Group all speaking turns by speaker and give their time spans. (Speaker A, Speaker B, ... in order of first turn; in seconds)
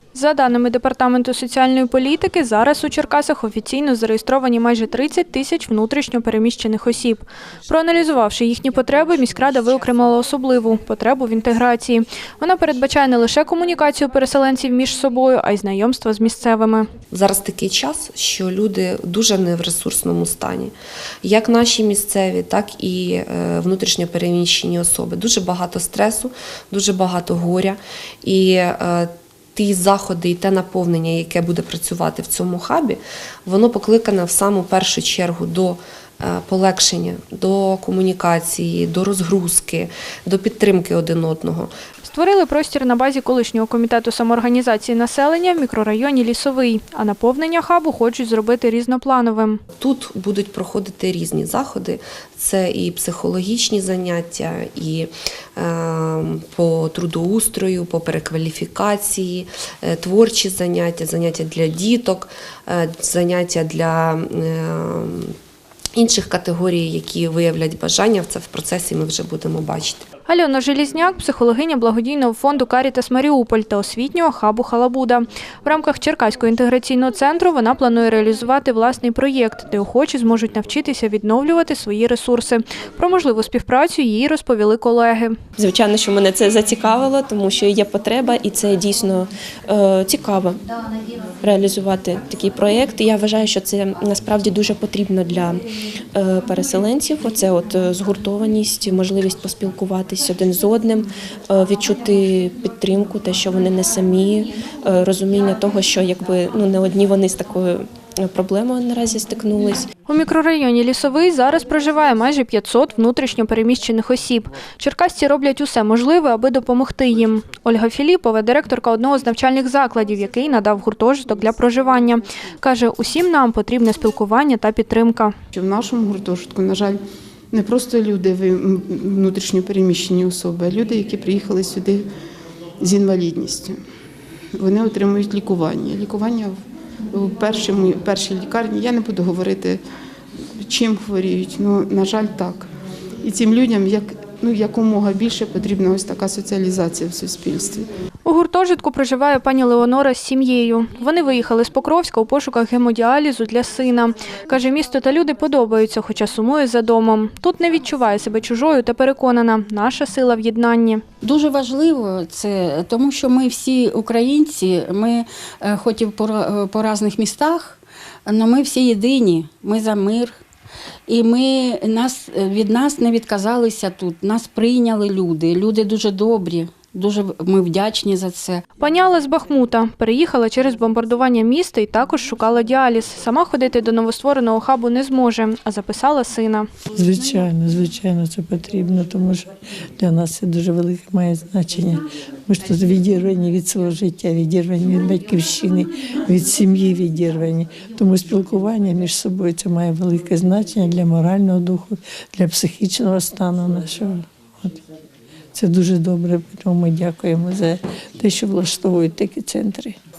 Speaker A: 0.1-16.9, 42.0-49.6, 70.3-85.3, 110.1-125.3, 148.2-161.0, 178.8-186.7
Speaker B: 17.1-41.7, 49.8-65.3, 65.9-70.0
Speaker C: 85.6-90.6, 91.4-95.6, 96.1-109.8
Speaker D: 125.5-127.0, 127.5-132.0, 132.8-133.8, 134.5-136.5, 137.1-139.8, 140.6-142.7, 143.2-147.9
Speaker E: 161.2-170.4, 171.1-178.6
Speaker F: 186.9-204.8, 205.5-209.9